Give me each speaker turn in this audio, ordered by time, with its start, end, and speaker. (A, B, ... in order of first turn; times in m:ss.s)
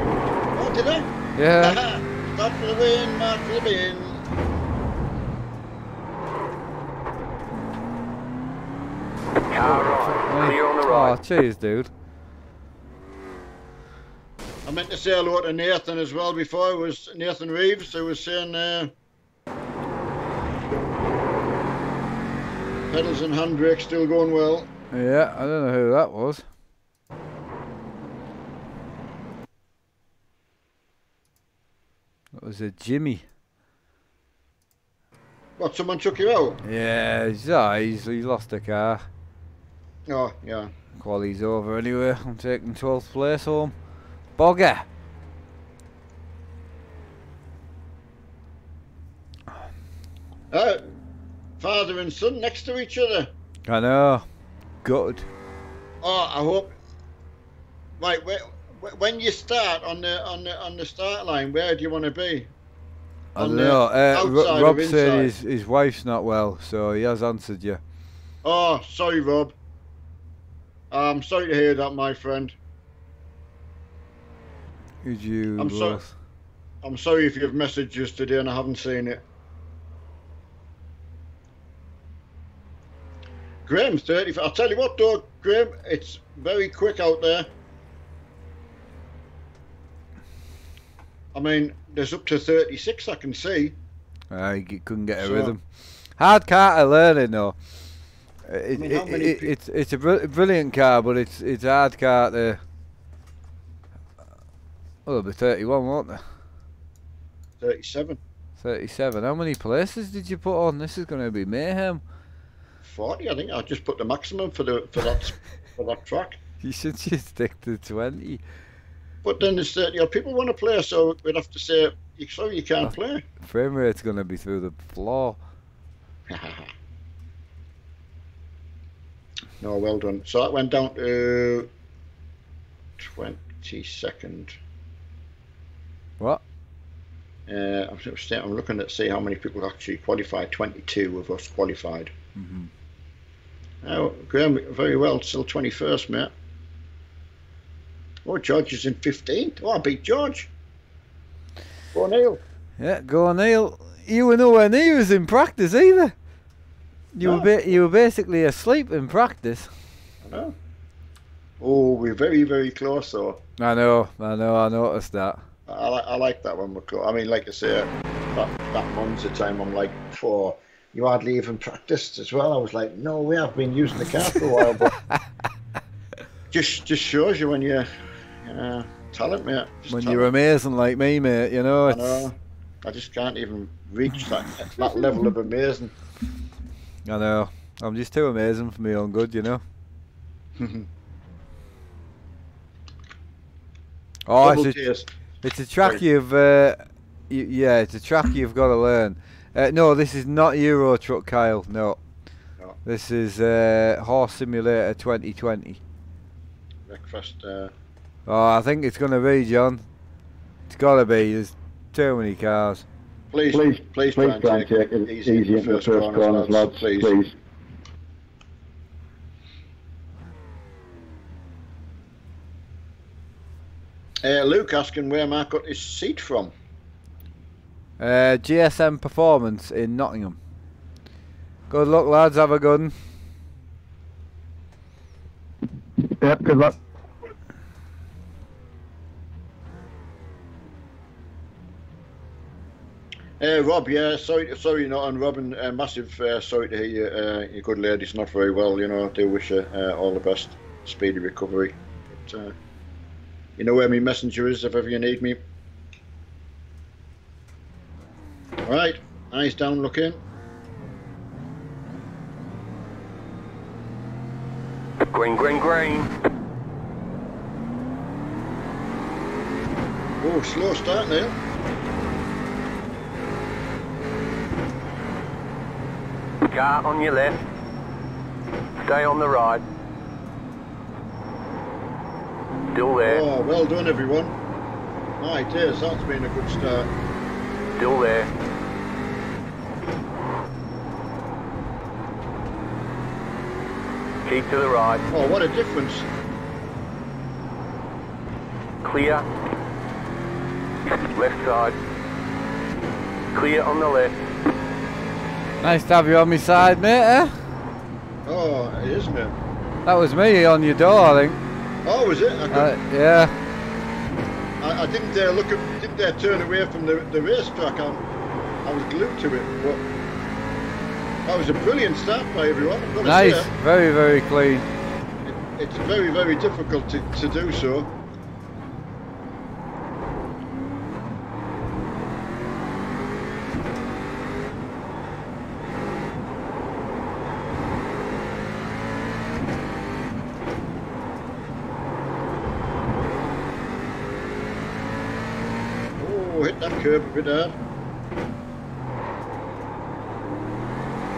0:00.5-0:04.2 A
0:01.4-0:01.8 B
0:09.5-0:11.2 C
0:09.6-0:11.9 B
0:14.6-0:18.9 A
0:22.9-0:24.7 A
0:24.9-0:26.4 B
0:32.3-0:33.2 B
0:35.6-0:36.6 A
0:36.6-0:39.0 B
0:40.1-0:40.7 A
0:41.0-0:43.7 B
0:44.4-0:44.9 B
0:50.5-0:50.8 A
0:51.6-0:53.3 A
0:53.7-0:54.2 B
0:54.8-0:55.2 B
0:56.0-0:56.7 A
0:58.0-1:02.5 A
1:03.3-1:07.8 B
1:03.4-1:05.3 A
1:08.4-1:09.6 A
1:10.9-1:12.6 A
1:15.0-1:16.1 B
1:15.6-1:16.0 A
1:16.8-1:19.2 A
1:23.7-1:27.5 A
1:31.3-1:33.8 A
1:34.3-1:37.6 B
1:35.2-1:35.6 A
1:38.4-1:42.6 B
1:38.7-1:39.5 A
1:45.0-1:46.2 B
1:47.6-1:48.2 A
1:48.6-1:52.0 B
1:52.8-1:56.4 A
1:56.6-1:58.4 B
1:59.2-2:03.2 A
2:02.8-2:05.4 B
2:06.3-2:06.7 A
2:09.6-2:11.7 A
2:13.0-2:14.6 A
2:17.5-2:22.1 A
2:22.4-2:22.7 B
2:23.8-2:26.3 A
2:28.2-2:30.5 A
2:31.9-2:32.4 A
2:32.8-2:36.1 B
2:37.1-2:39.7 B
2:37.2-2:37.7 A
2:40.2-2:40.6 A
2:41.6-2:43.4 A
2:43.6-2:45.4 B
2:45.7-2:55.0 A
2:54.8-2:55.2 B
2:56.5-2:57.9 A
2:58.4-3:00.3 A
2:59.9-3:02.3 B
3:01.8-3:05.9 A
3:07.0-3:09.6 B
3:10.6-3:10.9 A
3:14.3-3:14.8 B
3:14.4-3:15.1 A
3:15.4-3:22.0 B
3:22.8-3:25.8 B
3:26.9-3:27.7 A
3:28.3-3:29.8 B
3:30.7-3:32.8 B
3:33.3-3:37.2 A
3:33.5-3:37.3 D
3:44.2-3:46.5 A
3:48.0-3:50.4 B
3:51.7-3:52.9 B
3:56.0-3:56.8 D
4:03.4-4:12.5 A
4:13.6-4:15.4 A
4:18.7-4:20.2 A
4:25.1-4:26.1 C
4:30.2-4:31.4 A
4:36.4-4:37.4 C
4:38.8-4:39.6 C
4:42.7-4:43.2 C
4:43.0-4:44.4 A
4:45.2-4:46.9 A
4:47.8-4:48.3 C
4:54.2-4:55.0 C
4:55.1-4:56.1 A
4:58.8-4:59.2 C
5:01.0-5:01.8 C
5:03.3-5:04.1 C
5:05.6-5:07.3 B
5:08.3-5:09.3 A
5:09.8-5:11.4 B
5:11.8-5:12.7 A
5:12.5-5:13.3 B
5:14.6-5:18.0 A
5:18.6-5:19.8 A
5:21.2-5:23.5 A
5:23.0-5:24.7 B
5:25.2-5:27.9 A
5:46.0-5:47.6 A